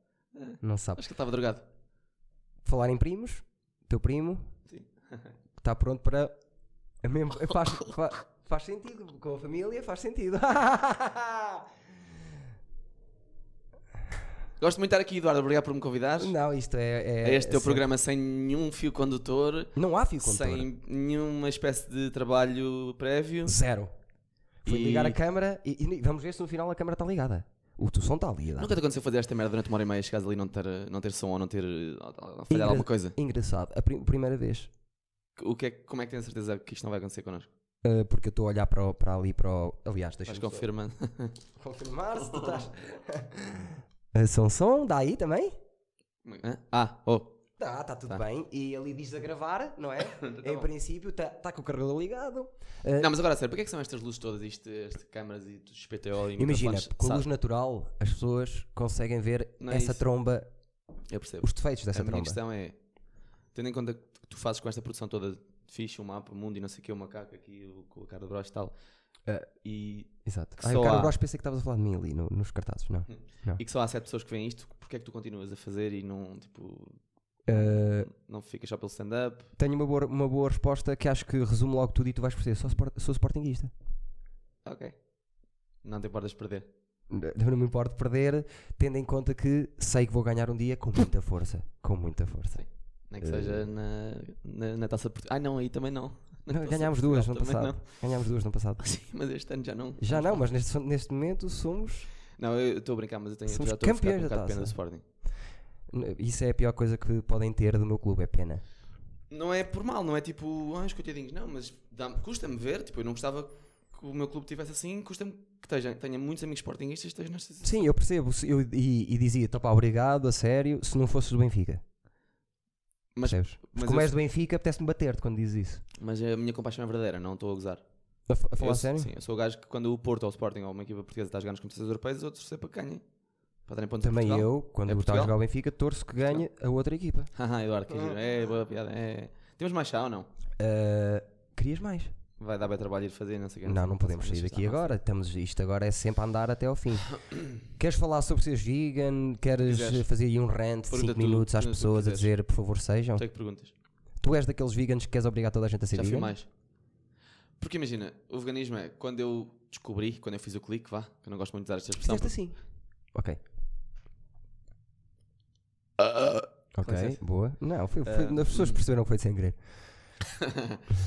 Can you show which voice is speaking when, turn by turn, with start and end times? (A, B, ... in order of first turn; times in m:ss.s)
0:00.4-0:01.6 A
0:00.6-0:01.0 B
0:02.6-0:04.4 B
0:04.7-0:05.3 A
0:05.6-0:06.3 B
0:07.0-0:11.7 B
0:14.6-0:16.3 A
0:16.2-0:17.8 B
0:17.2-0:23.6 A
0:19.8-0:20.7 B
0:23.4-0:23.9 B
0:24.6-0:28.8 B
0:24.7-0:25.2 A
0:28.6-0:33.2 A
0:32.5-0:34.7 B
0:35.4-0:37.5 A
0:37.8-0:40.7 B
0:40.3-0:41.4 A
0:41.6-0:45.6 B
0:42.2-0:42.6 A
0:46.2-0:47.4 A
0:47.6-0:53.1 B
0:50.2-0:50.7 A
0:53.0-0:57.3 A
0:56.4-1:00.5 B
0:59.6-1:00.0 A
1:01.1-1:02.8 A
1:01.4-1:02.4 B
1:03.5-1:08.8 A
1:09.6-1:11.1 A
1:10.2-1:13.6 B
1:13.1-1:19.5 A
1:17.5-1:18.1 B
1:19.6-1:23.7 B
1:24.6-1:25.0 A
1:25.8-1:26.7 A
1:27.1-1:32.6 B
1:32.6-1:38.0 A
1:33.2-1:33.6 B
1:36.5-1:38.8 B
1:38.8-1:40.4 A
1:40.0-1:42.1 B
1:42.4-1:45.0 A
1:43.5-1:44.8 B
1:45.9-1:48.6 B
1:49.3-1:57.8 A
1:57.6-2:01.8 B
2:03.2-2:04.2 A
2:03.3-2:05.8 B
2:06.0-2:07.8 A
2:08.3-2:09.1 B
2:08.6-2:13.0 A
2:13.7-2:15.4 A
2:14.0-2:17.3 B
2:17.3-2:20.3 A
2:17.9-2:18.2 B
2:20.6-2:22.1 B
2:22.4-2:25.0 A
2:23.6-2:33.2 B
2:29.6-2:30.1 A
2:30.9-2:32.3 A
2:33.2-2:33.7 A
2:34.2-2:36.3 B
2:35.9-2:36.5 A
2:37.6-2:42.4 A
2:42.0-2:42.6 B
2:43.1-2:43.4 B
2:46.0-2:47.2 A
2:46.8-2:49.6 B
2:48.0-2:48.8 A
2:50.4-2:50.9 A